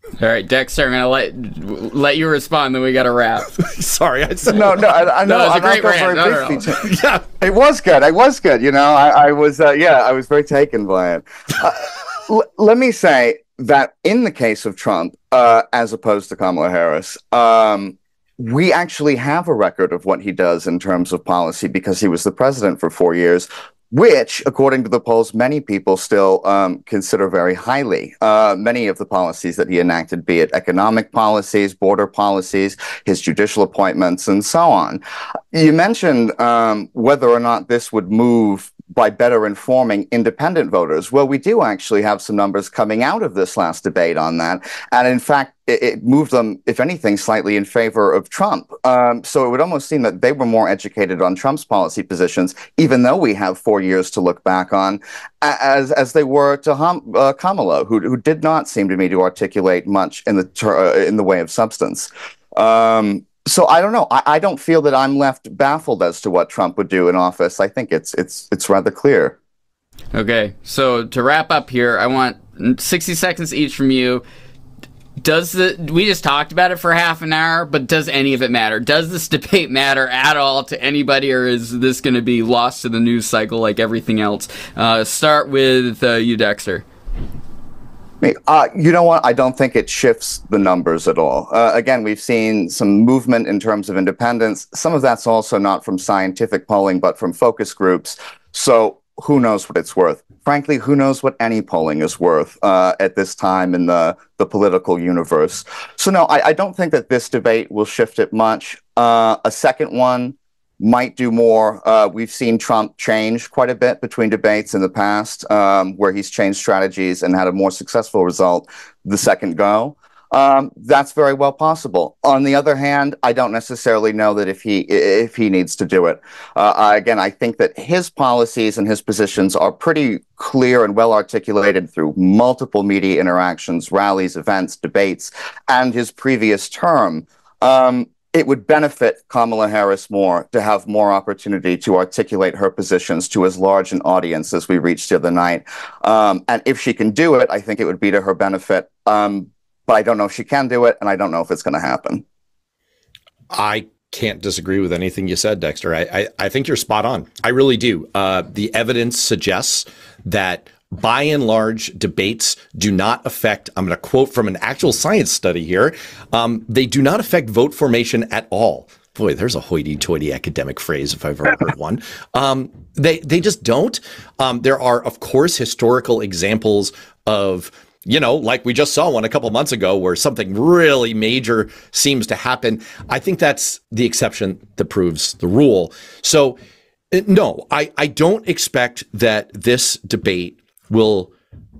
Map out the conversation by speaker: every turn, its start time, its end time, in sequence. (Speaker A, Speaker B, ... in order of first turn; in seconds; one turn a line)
Speaker A: 0.2-3.5
Speaker B: 3.5-5.1
Speaker C: 4.5-35.0
Speaker A: 5.2-6.7
Speaker B: 6.7-7.2
Speaker C: 35.5-69.3
Speaker A: 70.1-74.2
Speaker A: 75.2-86.8
Speaker C: 88.2-152.2
Speaker B: 153.5-186.6
Speaker B: 187.1-191.3